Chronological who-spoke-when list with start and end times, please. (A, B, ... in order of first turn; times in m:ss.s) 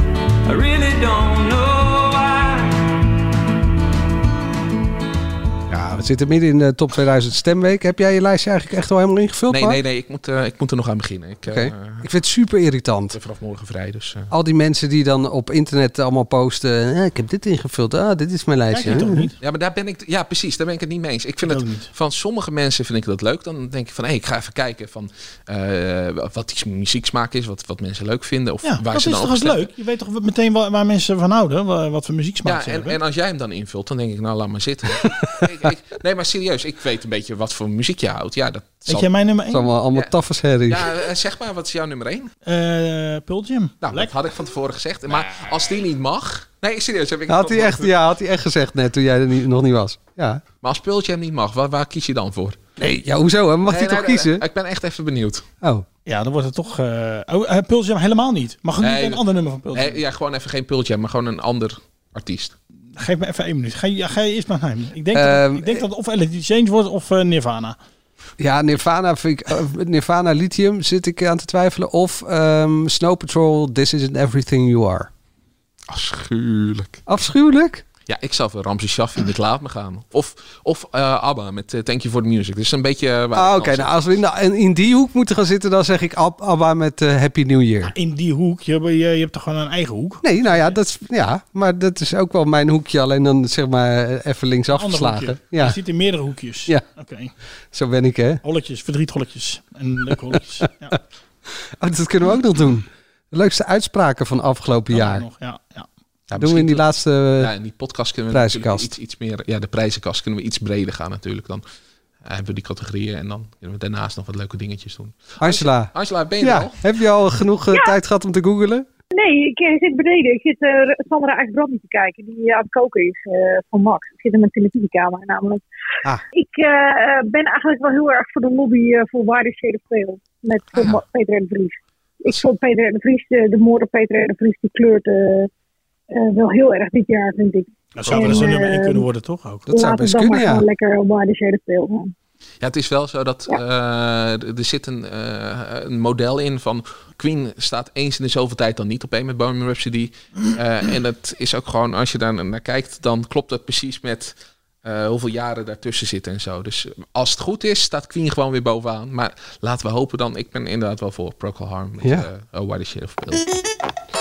0:00.4-0:03.0 A
0:05.7-0:09.8 B
0:09.5-0:12.0 C
0:11.5-0:13.2 B
0:13.1-0:14.3 C
0:14.3-0:19.3 B
0:18.7-0:19.4 D
0:18.9-0:29.7 C
0:21.4-0:21.9 D
0:28.6-0:33.0 D
0:32.4-0:39.1 C
0:38.9-0:39.7 D
0:39.5-0:40.9 B
0:40.7-0:42.3 C
0:42.4-0:44.1 D
0:43.8-0:47.9 C
0:47.3-0:50.4 B
0:50.6-0:52.6 C
0:52.8-0:54.4 B
0:53.6-0:55.4 C
0:56.0-1:00.0 D
0:58.8-0:59.2 C
0:59.7-1:02.5 C
1:02.9-1:07.8 D
1:05.1-1:05.8 B
1:08.4-1:15.1 B
1:15.9-1:17.0 C
1:17.1-1:17.8 B
1:18.1-1:23.9 C
1:23.3-1:27.9 B
1:27.8-1:30.8 D
1:30.2-1:35.8 B
1:34.7-1:37.3 D
1:37.7-1:38.4 B
1:38.4-1:41.0 D
1:41.8-1:45.2 B
1:44.9-1:45.9 D
1:46.3-1:46.8 C
1:46.4-1:47.5 B
1:47.4-1:51.6 C
1:48.3-1:48.9 B
1:52.2-1:56.8 C
1:55.4-1:58.8 B
1:59.1-2:05.6 E
2:06.3-2:15.5 E
2:10.7-2:11.0 C
2:16.1-2:19.0 E
2:17.9-2:19.7 D
2:19.6-2:20.6 B
2:19.7-2:22.1 E
2:22.6-2:43.4 C
2:42.0-2:42.3 B